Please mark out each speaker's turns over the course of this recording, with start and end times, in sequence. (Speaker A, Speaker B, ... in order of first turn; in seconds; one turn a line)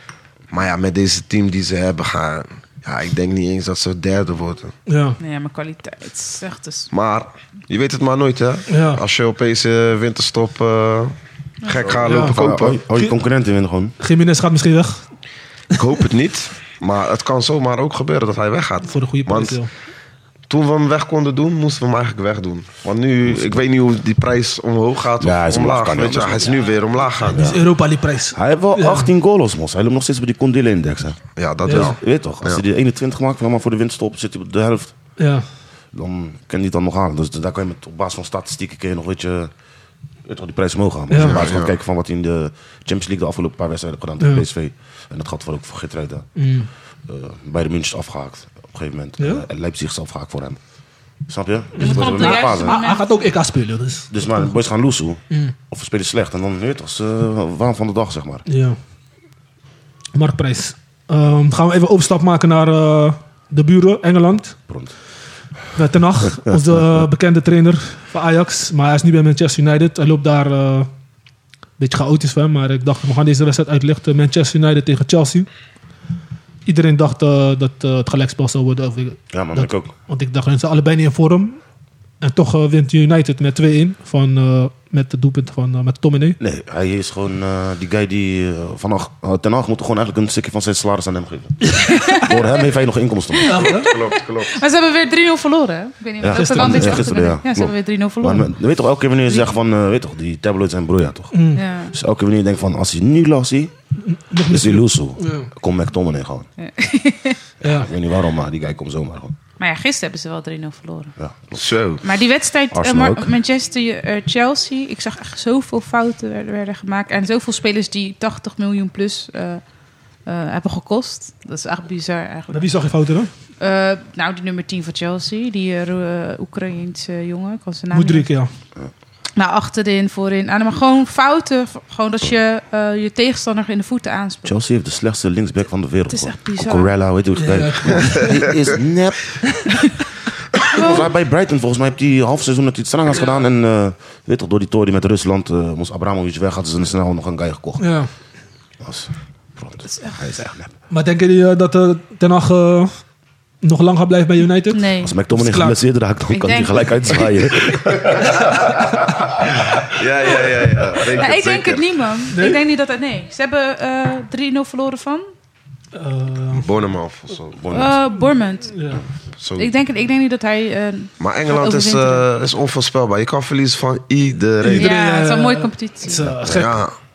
Speaker A: 0.5-4.7
Speaker B: 4.9-5.2
Speaker C: 5.2-6.9
Speaker A: 6.9-12.8
Speaker B: 8.7-9.0
Speaker D: 11.8-13.9
Speaker B: 12.0-12.4
Speaker B: 14.0-15.1
Speaker A: 15.7-19.6
Speaker B: 18.9-19.7
Speaker A: 20.5-27.5
Speaker D: 23.2-23.6
Speaker D: 25.2-26.5
Speaker C: 26.4-26.8
Speaker D: 27.3-27.6
Speaker B: 27.3-29.1
Speaker D: 28.3-34.9
Speaker A: 31.4-32.6
Speaker B: 31.6-31.9
Speaker B: 35.2-35.4
Speaker D: 35.9-39.5
Speaker D: 40.2-46.3
Speaker B: 41.1-41.4
Speaker A: 41.2-41.7
Speaker B: 46.4-46.7
Speaker D: 47.1-50.6
Speaker B: 49.2-49.4
Speaker D: 51.3-52.8
Speaker B: 51.8-54.6
Speaker C: 51.8-53.2
Speaker D: 54.1-58.4
Speaker B: 58.5-58.8
Speaker B: 60.1-64.6
Speaker B: 65.7-70.9
Speaker B: 71.8-75.5
Speaker B: 76.7-81.6
Speaker D: 79.3-79.9
Speaker B: 82.2-86.4
Speaker D: 86.4-93.7
Speaker C: 91.8-92.6
Speaker C: 93.4-98.5
Speaker B: 93.5-93.9
Speaker A: 93.7-94.6
Speaker D: 96.2-103.7
Speaker B: 96.3-97.1
Speaker B: 101.3-101.6
Speaker C: 101.5-102.0
Speaker B: 104.0-105.5
Speaker D: 104.5-106.5
Speaker C: 106.6-107.4
Speaker B: 107.6-107.9
Speaker D: 107.6-109.3
Speaker C: 109.6-111.2
Speaker D: 111.2-111.7
Speaker A: 111.5-112.0
Speaker C: 112.0-119.6
Speaker D: 112.7-113.3
Speaker C: 120.2-122.8
Speaker B: 122.5-123.3
Speaker C: 123.6-128.3
Speaker B: 127.9-128.5
Speaker C: 129.3-134.6
Speaker D: 134.4-139.9
Speaker C: 136.1-136.9
Speaker B: 137.3-138.4
Speaker A: 137.9-138.3
Speaker D: 140.6-148.0
Speaker C: 140.7-141.1
Speaker B: 147.8-148.1
Speaker D: 148.8-150.7
Speaker C: 149.9-150.2
Speaker B: 150.9-152.9
Speaker B: 153.6-155.8
Speaker C: 154.7-155.2
Speaker D: 155.0-159.5
Speaker C: 156.3-157.8
Speaker A: 159.8-161.8
Speaker C: 160.4-165.3
Speaker B: 162.3-162.6
Speaker B: 165.9-166.7
Speaker A: 166.5-167.6
Speaker D: 167.6-168.0
Speaker C: 167.7-168.8
Speaker B: 168.7-169.0
Speaker A: 169.4-169.7
Speaker C: 169.6-172.3
Speaker A: 171.2-174.9
Speaker B: 174.6-176.8
Speaker C: 174.7-176.3
Speaker D: 176.3-176.7
Speaker A: 176.4-176.9